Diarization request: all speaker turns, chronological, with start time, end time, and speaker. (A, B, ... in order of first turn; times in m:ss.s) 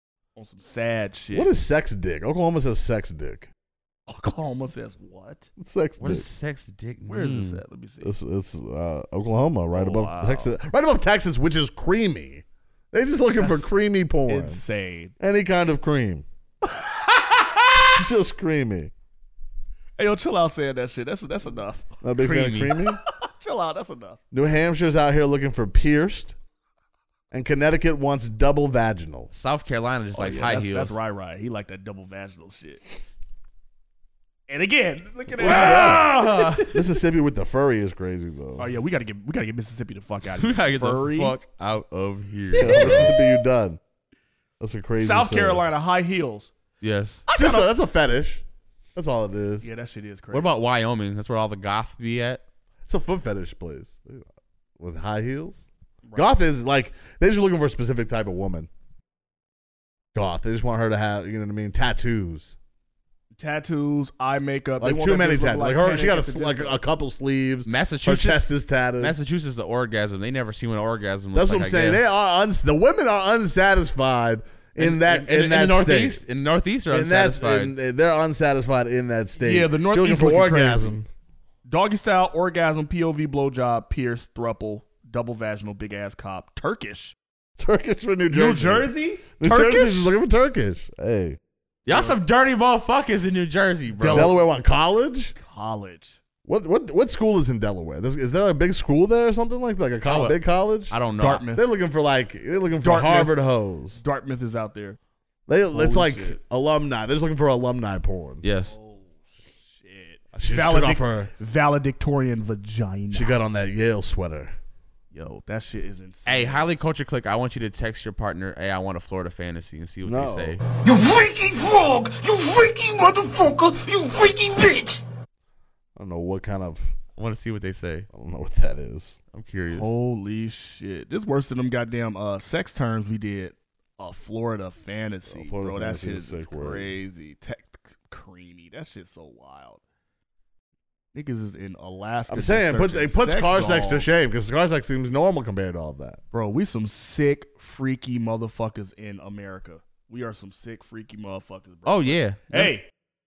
0:00.4-0:01.5 A
0:01.3-0:03.5 B
0:04.1-0:05.5 A
0:05.6-0:06.2 B
0:06.0-0:07.6 C
0:07.1-0:08.1 A
0:08.0-0:14.6 B
0:09.7-0:10.5 A
0:13.4-0:13.7 A
0:14.2-0:15.1 A
0:15.2-0:16.2 B
0:16.8-0:17.2 A
0:17.9-0:18.9 B
0:20.0-0:21.8 A
0:22.0-0:23.0 B
0:22.2-0:22.8 C
0:23.2-0:24.2 A
0:24.3-0:26.4 B
0:27.3-0:29.3 B
0:29.3-0:31.0 C
0:30.1-0:33.0 A
0:34.5-0:36.7 A
0:35.4-0:38.7 B
0:35.4-0:36.7 C
0:38.6-0:41.4 A
0:40.4-0:43.1 C
0:42.5-0:43.4 A
0:42.6-0:43.8 B
0:44.6-0:45.6 B
0:45.0-0:46.5 A
0:46.8-0:47.2 C
0:47.3-0:47.7 A
0:47.3-0:48.4 B
0:48.9-0:49.7 B
0:49.6-0:50.5 A
0:50.3-0:52.4 C
0:52.8-0:54.3 B
0:54.8-0:58.7 B
0:56.0-0:56.3 A
1:00.1-1:02.6 B
1:03.3-1:06.8 A
1:04.8-1:09.1 B
1:07.6-1:12.0 C
1:11.3-1:16.2 B
1:14.8-1:17.7 C
1:16.9-1:21.1 B
1:19.4-1:21.0 A
1:21.7-1:27.1 A
1:27.6-1:31.4 B
1:28.3-1:30.1 A
1:31.8-1:34.3 C
1:31.9-1:32.2 A
1:34.0-1:34.4 A
1:34.0-1:35.3 B
1:35.4-1:36.2 A
1:36.4-1:41.0 B
1:40.0-1:40.4 C
1:40.9-1:41.4 C
1:41.2-1:41.6 A
1:41.5-1:44.0 B
1:42.8-1:43.4 A
1:44.0-1:45.0 A
1:45.5-1:48.4 B
1:45.7-1:46.4 A
1:48.4-1:48.7 C
1:48.7-1:53.4 A
1:50.3-1:51.3 B
1:53.1-1:54.5 B
1:55.1-1:56.6 A
1:56.3-2:00.6 C
2:00.0-2:00.6 B
2:00.8-2:05.0 D
2:06.0-2:06.9 B
2:07.2-2:08.1 C
2:08.1-2:09.2 B
2:09.3-2:09.9 C
2:09.7-2:19.8 A
2:15.3-2:16.9 B
2:21.1-2:24.1 A
2:22.3-2:26.2 B
2:26.3-2:32.9 A
2:31.8-2:32.7 C